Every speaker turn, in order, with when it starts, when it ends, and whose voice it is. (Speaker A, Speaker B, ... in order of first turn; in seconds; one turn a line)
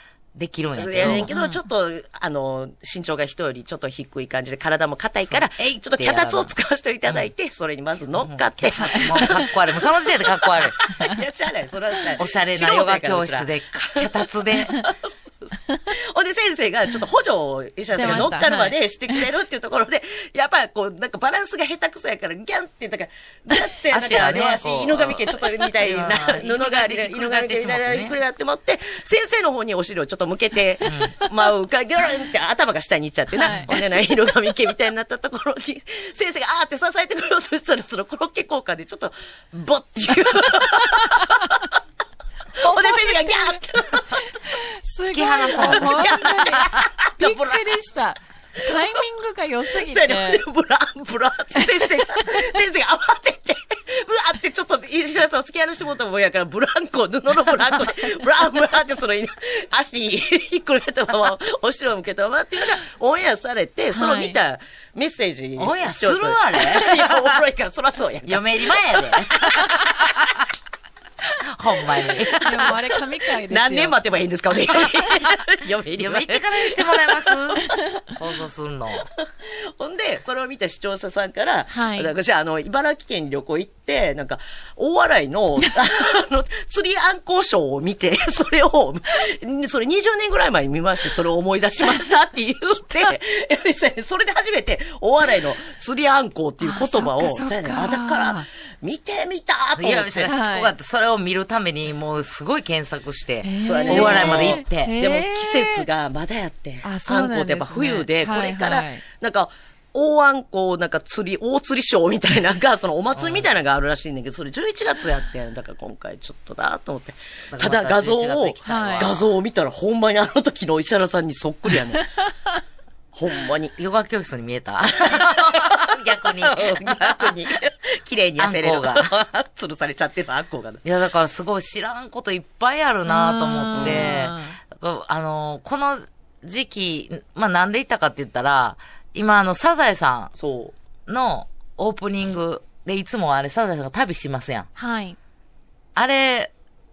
Speaker A: 0.3-1.3
Speaker B: 0.8-9.5
Speaker C: 1.0-1.6
Speaker A: 5.3-6.5
Speaker A: 8.1-10.8
Speaker C: 8.7-9.5
Speaker B: 10.6-41.6
Speaker A: 12.2-14.8
Speaker C: 17.9-19.2
Speaker A: 18.0-18.3
Speaker A: 23.9-28.1
Speaker A: 30.8-31.1
Speaker C: 33.4-33.8
Speaker B: 42.5-44.3
Speaker C: 42.6-43.6
Speaker C: 44.2-50.4
Speaker A: 45.0-46.6
Speaker B: 45.5-47.7
Speaker B: 49.9-70.3
Speaker C: 51.7-52.4
Speaker C: 63.9-64.4
Speaker A: 65.6-67.4
Speaker A: 68.2-69.9
Speaker A: 71.5-72.7
Speaker B: 72.3-72.7
Speaker C: 72.3-74.0
Speaker B: 73.5-77.3
Speaker A: 76.0-79.1
Speaker B: 79.8-100.3
Speaker C: 81.7-82.1
Speaker C: 96.6-98.4
Speaker A: 99.8-105.0
Speaker C: 100.3-100.7
Speaker C: 103.4-105.8
Speaker B: 103.6-122.1
Speaker C: 106.8-109.0
Speaker A: 113.1-113.5
Speaker A: 117.5-119.3
Speaker C: 118.7-119.1
Speaker B: 123.1-123.7
Speaker A: 123.8-127.3
Speaker B: 125.0-130.8
Speaker A: 128.4-129.1
Speaker A: 130.8-140.3
Speaker C: 133.1-134.6
Speaker B: 133.7-134.1
Speaker B: 140.4-140.7
Speaker A: 141.1-144.7
Speaker C: 144.8-145.2
Speaker A: 145.9-146.5